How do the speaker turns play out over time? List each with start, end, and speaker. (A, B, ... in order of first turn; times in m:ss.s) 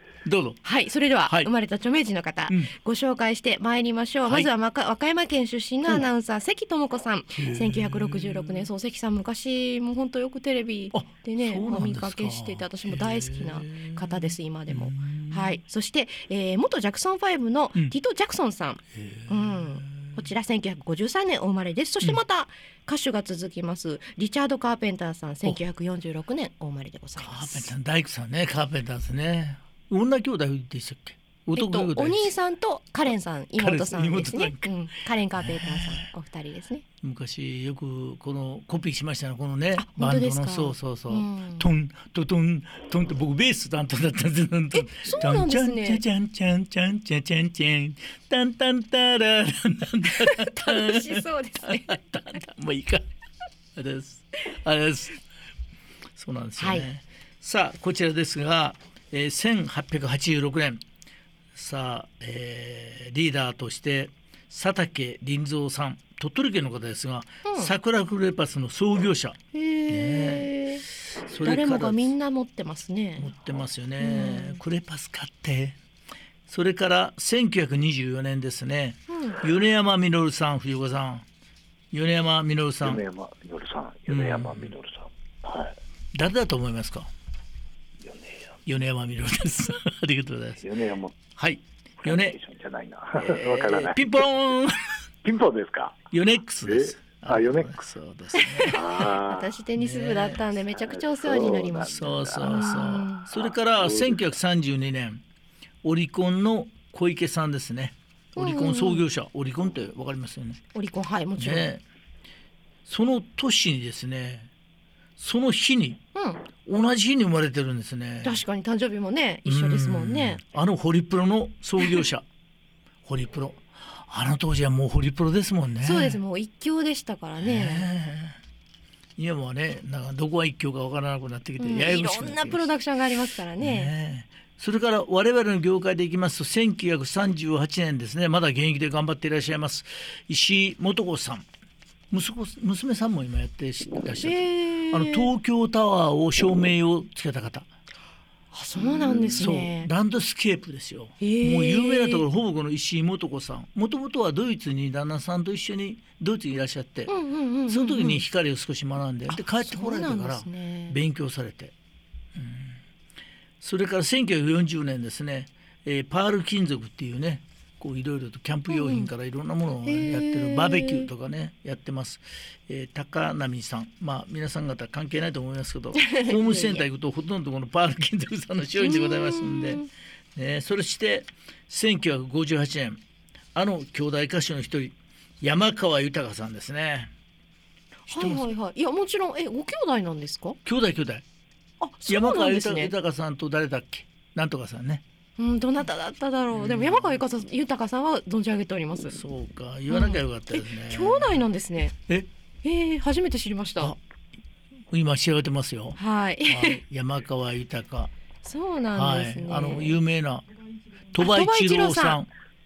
0:00.2-0:00.6 A
0:00.6-0:27.7 B
0:01.2-0:01.5 A
0:07.3-0:08.7 A
0:10.9-0:15.6 A
0:18.9-0:20.2 A
0:27.2-0:32.3 A
0:31.5-0:36.8 B
0:33.6-0:34.8 A
0:35.3-0:36.1 A
0:37.0-0:53.1 A
0:39.8-0:41.7 B
0:44.7-0:46.0 B
0:50.1-0:52.0 B
0:53.8-0:55.2 A
0:56.1-1:00.8 A
0:56.6-0:56.9 B
1:01.5-1:12.1 A
1:07.4-1:07.7 B
1:09.5-1:10.8 B
1:11.4-1:13.3 B
1:13.2-1:15.8 A
1:14.0-1:14.6 B
1:16.5-1:21.2 A
1:19.1-1:19.4 B
1:21.9-1:23.0 A
1:22.8-1:25.8 C
1:24.1-1:24.7 A
1:26.1-1:27.1 A
1:28.0-1:28.5 C
1:28.6-1:30.7 A
1:30.6-1:31.1 C
1:31.4-1:32.4 A
1:32.0-1:34.2 C
1:33.1-1:35.0 A
1:35.2-1:36.0 C
1:36.1-1:38.8 A
1:36.6-1:37.8 C
1:38.4-1:43.3 B
1:38.7-1:39.6 C
1:39.8-1:40.4 A
1:40.7-1:44.3 C
1:41.9-1:45.2 A
1:45.8-1:50.6 A
1:48.4-1:49.0 B
1:50.7-1:51.7 B
1:51.4-1:51.8 A
1:52.8-1:54.5 A
1:55.2-1:56.0 A
1:56.1-1:56.4 B
1:56.5-1:58.4 A
1:58.2-2:00.4 B
1:59.4-2:02.2 A
2:03.0-2:06.2 A
2:05.8-2:07.9 B
2:07.4-2:08.4 A
2:09.2-2:12.7 A
2:11.6-2:13.9 B
2:13.6-2:21.4 A
2:22.1-2:27.7 A
2:24.2-2:25.3 B
2:28.5-2:29.9 B
2:28.9-2:29.4 C
2:29.1-2:41.7 A
2:31.2-2:32.3 B
2:37.1-2:38.2 B
2:39.3-2:41.0 B
2:42.3-2:42.8 A
2:43.6-2:59.8 A
2:48.7-2:49.1 B
2:49.9-2:51.1 B
2:55.9-2:56.8 B
2:58.8-2:59.9 B
3:00.3-3:03.0 A
3:03.5-3:07.1 A
3:08.1-3:08.5 A
3:08.1-3:10.6 B
3:10.6-3:11.2 A
3:11.8-3:12.9 B
3:12.0-3:15.0 A
3:15.4-3:19.2 B
3:16.5-3:17.2 A
3:19.1-3:21.5 A
3:19.9-3:21.9 B
3:22.6-3:23.9 B
3:24.9-3:28.1 A
3:26.0-3:26.8 B
3:28.4-3:30.0 B
3:28.9-3:30.4 A
3:31.1-3:32.3 A
3:31.2-3:32.2 B